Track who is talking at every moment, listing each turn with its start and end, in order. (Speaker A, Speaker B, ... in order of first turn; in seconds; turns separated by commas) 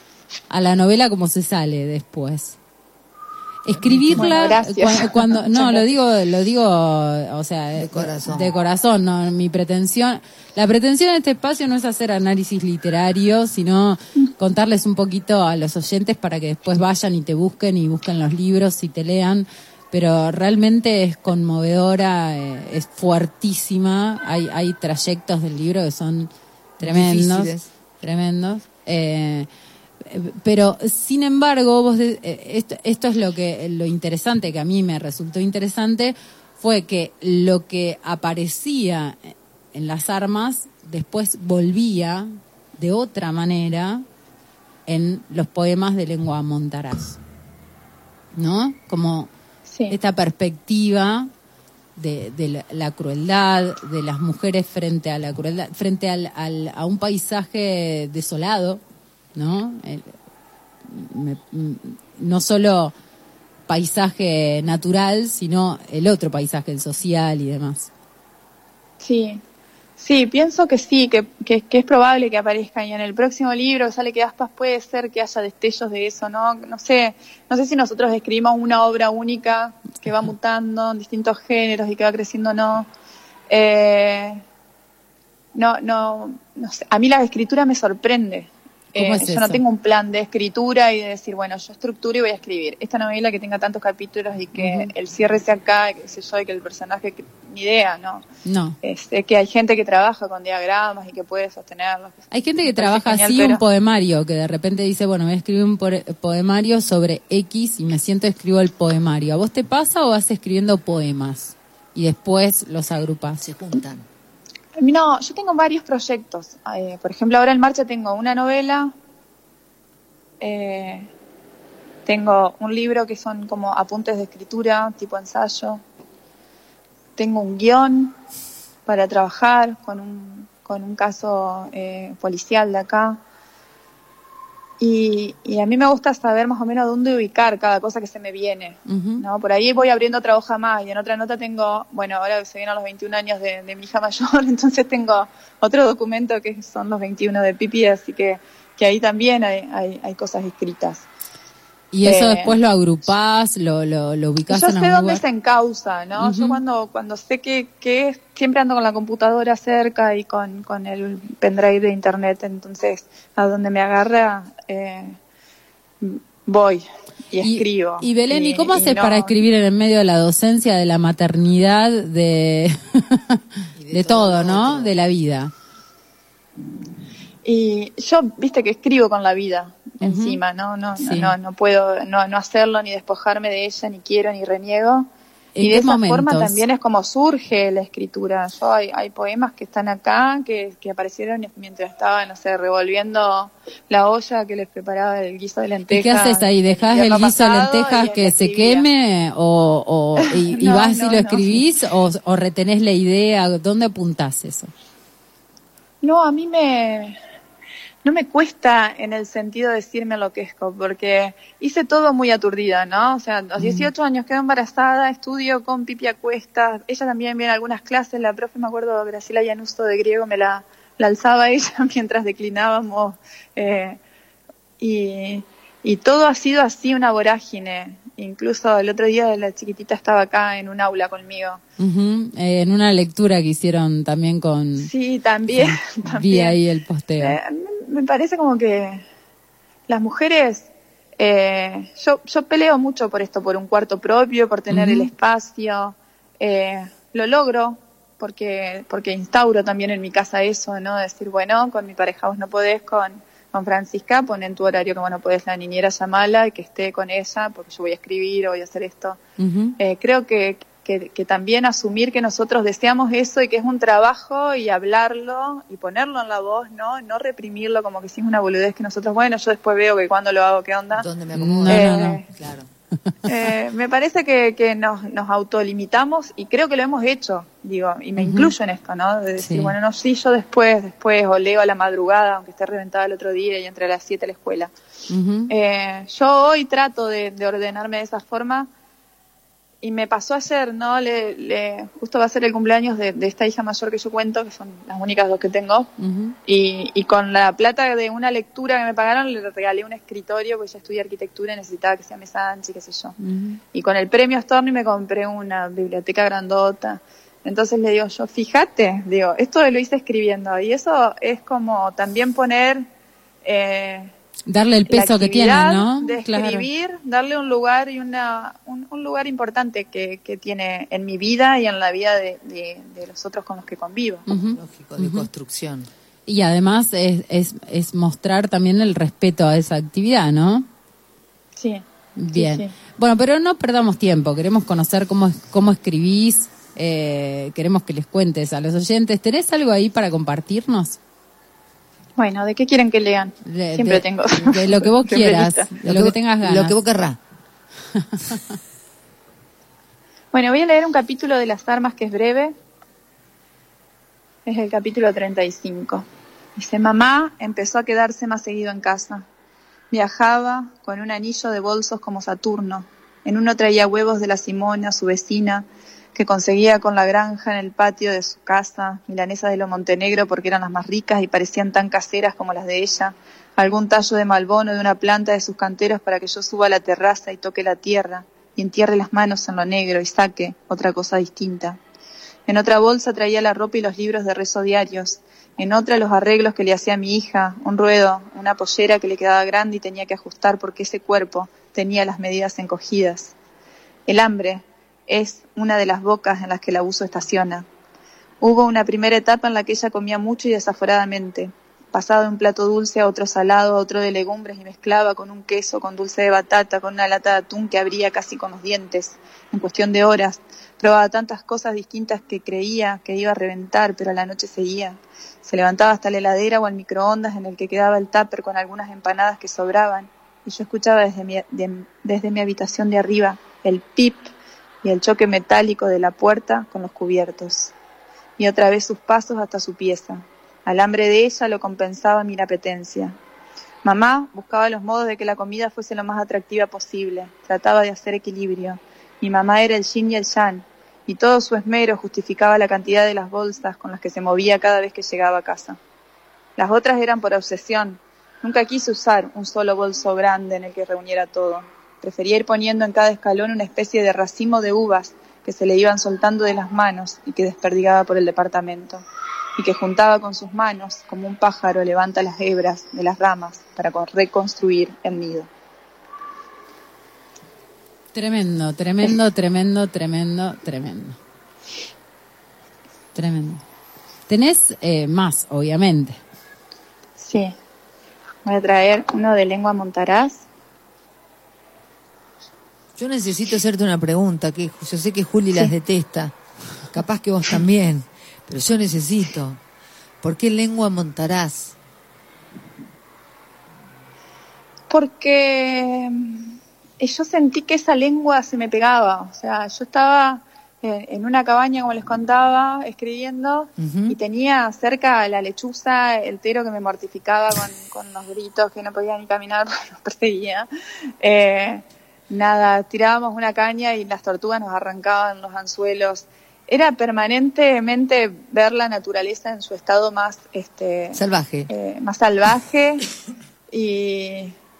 Speaker A: 0.5-2.6, Speaker A: 3.6-29.5, Speaker B: 3.8-4.5, Speaker C: 4.1-5.9, Speaker B: 7.7-8.5, Speaker B: 26.8-27.7, Speaker A: 30.0-44.0, Speaker A: 44.9-47.2, Speaker A: 48.3-49.3, Speaker C: 49.7-50.0, Speaker A: 49.9-51.3, Speaker A: 52.0-58.8, Speaker A: 59.3-60.1, Speaker A: 60.9-62.9, Speaker A: 63.7-67.9, Speaker C: 69.0-69.4, Speaker C: 70.0-82.9, Speaker C: 83.5-84.4, Speaker C: 85.5-98.2, Speaker A: 88.9-89.6, Speaker A: 94.6-94.9, Speaker A: 98.4-98.8, Speaker C: 98.8-103.6, Speaker A: 102.3-113.4, Speaker B: 113.4-114.0, Speaker C: 114.8-118.9, Speaker C: 120.4-121.1, Speaker C: 122.0-125.8, Speaker C: 127.2-128.2, Speaker C: 128.8-133.2, Speaker C: 134.8-151.1, Speaker A: 138.9-139.2, Speaker A: 151.9-155.2, Speaker C: 152.0-152.6, Speaker C: 154.5-165.2, Speaker A: 156.2-156.6, Speaker C: 166.0-169.4, Speaker A: 167.4-175.5, Speaker B: 173.8-174.9, Speaker C: 177.4-185.1, Speaker A: 180.0-180.4, Speaker A: 181.0-181.3, Speaker A: 185.6-186.6, Speaker C: 185.6-198.8, Speaker A: 195.9-204.7, Speaker C: 200.2-201.7, Speaker C: 206.0-207.2, Speaker C: 208.0-224.0, Speaker A: 213.6-213.9, Speaker C: 224.8-231.6, Speaker A: 231.8-234.9, Speaker C: 234.8-236.6, Speaker A: 235.5-237.4, Speaker C: 237.2-239.0, Speaker C: 239.9-259.2, Speaker A: 244.7-245.1, Speaker A: 259.4-259.8, Speaker C: 259.8-271.1, Speaker B: 270.9-272.7, Speaker A: 271.4-272.2, Speaker C: 271.7-272.3, Speaker C: 273.2-284.7, Speaker A: 278.2-278.5, Speaker A: 279.4-279.7, Speaker A: 285.1-285.5, Speaker C: 285.5-288.7, Speaker C: 289.8-295.9, Speaker A: 296.0-296.4, Speaker C: 296.4-303.2, Speaker A: 303.2-303.6, Speaker C: 303.7-312.8, Speaker C: 313.4-314.1, Speaker A: 314.5-316.7, Speaker C: 314.9-324.2, Speaker A: 324.3-325.3, Speaker B: 324.5-325.9, Speaker A: 326.3-330.7, Speaker C: 331.6-332.7, Speaker A: 332.1-341.0, Speaker C: 342.2-345.7, Speaker A: 343.4-346.8, Speaker B: 345.8-347.2, Speaker A: 347.9-348.4, Speaker C: 350.3-352.5, Speaker C: 354.4-356.0, Speaker C: 356.6-359.2, Speaker C: 359.9-381.8, Speaker C: 382.5-393.3, Speaker C: 394.1-397.6, Speaker C: 398.4-424.3, Speaker C: 424.8-427.7, Speaker C: 428.4-433.1, Speaker C: 433.8-445.8, Speaker C: 446.6-459.0, Speaker C: 459.6-465.5, Speaker A: 468.1-471.2, Speaker A: 473.1-473.6, Speaker A: 474.3-476.2, Speaker C: 477.2-477.6, Speaker C: 478.4-480.4, Speaker B: 482.9-486.3, Speaker B: 486.9-489.6, Speaker B: 490.2-491.7, Speaker C: 494.9-510.7, Speaker B: 503.8-504.2, Speaker C: 511.2-523.1, Speaker B: 521.1-521.7, Speaker C: 523.7-524.5